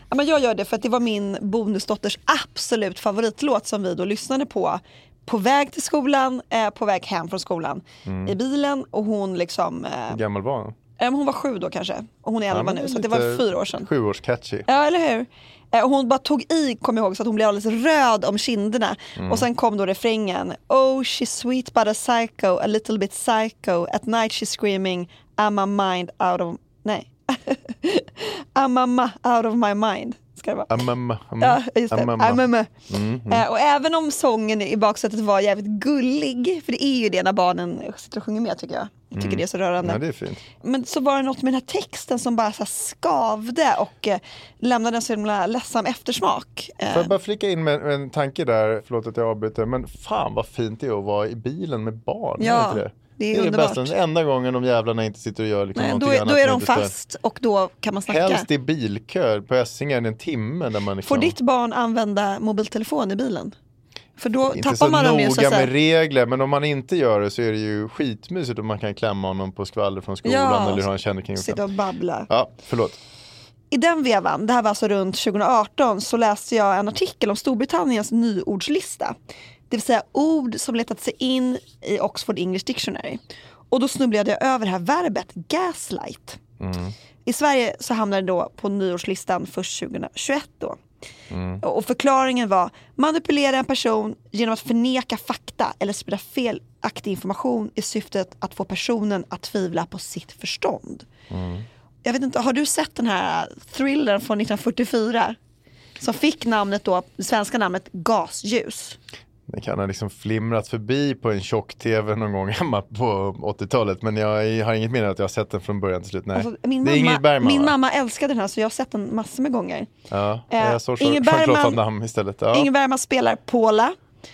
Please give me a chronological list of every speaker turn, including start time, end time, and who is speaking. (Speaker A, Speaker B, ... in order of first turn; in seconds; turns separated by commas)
Speaker A: 0.1-10.2, Speaker B: 8.1-8.3, Speaker B: 10.1-10.8, Speaker A: 11.0-13.9, Speaker B: 12.5-14.7, Speaker A: 14.7-30.7, Speaker B: 19.2-19.5, Speaker B: 30.7-33.4, Speaker A: 31.4-32.7, Speaker A: 33.3-40.0, Speaker B: 39.1-40.4, Speaker A: 40.6-47.1, Speaker B: 46.9-56.9, Speaker A: 52.4-53.9, Speaker A: 55.8-58.5, Speaker B: 58.1-61.4, Speaker A: 61.0-63.5, Speaker A: 64.2-65.7, Speaker B: 64.5-71.6, Speaker A: 70.2-72.3, Speaker B: 72.3-73.0, Speaker A: 73.7-79.2, Speaker A: 79.7-83.2, Speaker A: 83.7-86.4, Speaker B: 86.6-86.9, Speaker A: 87.2-90.8, Speaker B: 91.3-91.6, Speaker A: 91.6-101.1, Speaker B: 101.3-101.7, Speaker A: 102.0-105.4, Speaker A: 106.0-109.0, Speaker B: 109.5-117.7, Speaker A: 116.3-119.9, Speaker B: 120.1-122.7, Speaker A: 120.5-121.8, Speaker A: 122.5-123.9